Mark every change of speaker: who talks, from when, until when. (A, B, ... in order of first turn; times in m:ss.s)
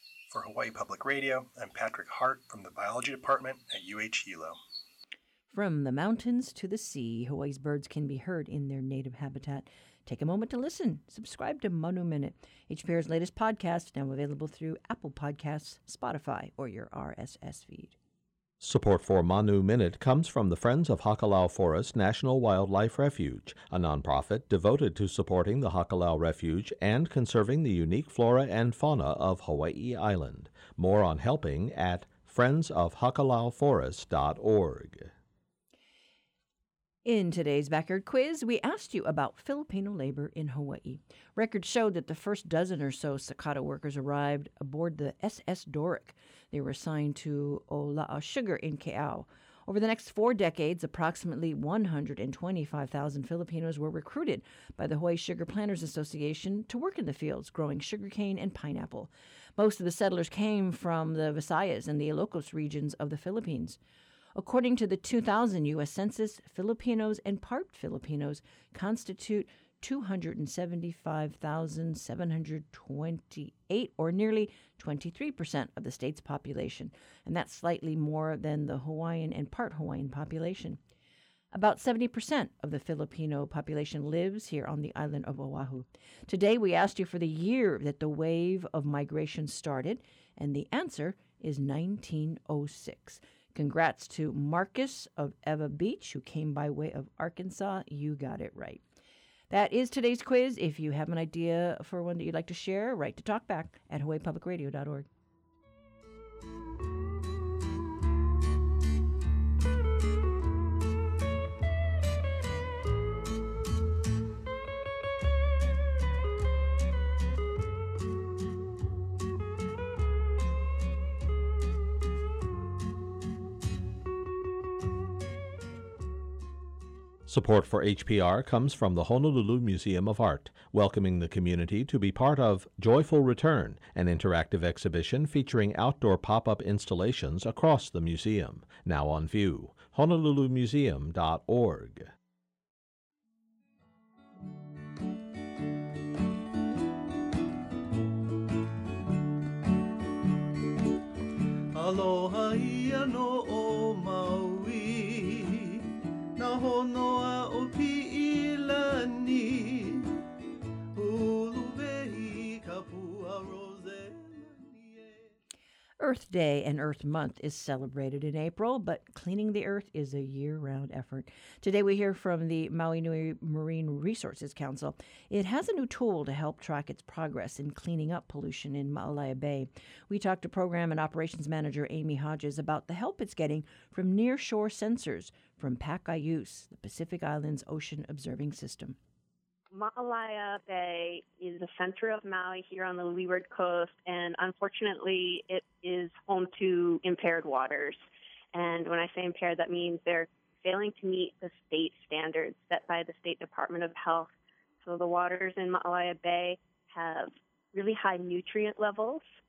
0:00.3-0:04.6 A
0:05.5-0:17.9 B
0:18.6-0:35.1 C
0:37.0-1:03.8 B
1:04.3-1:20.8 B
1:21.5-1:38.8 B
1:39.5-1:45.1 B
2:07.2-2:22.1 C
2:31.7-2:35.8 D
2:36.4-2:40.1 D
2:41.0-2:45.3 D
2:46.0-3:09.0 B
3:09.7-3:18.0 E
3:18.5-3:24.3 E
3:24.8-3:29.2 E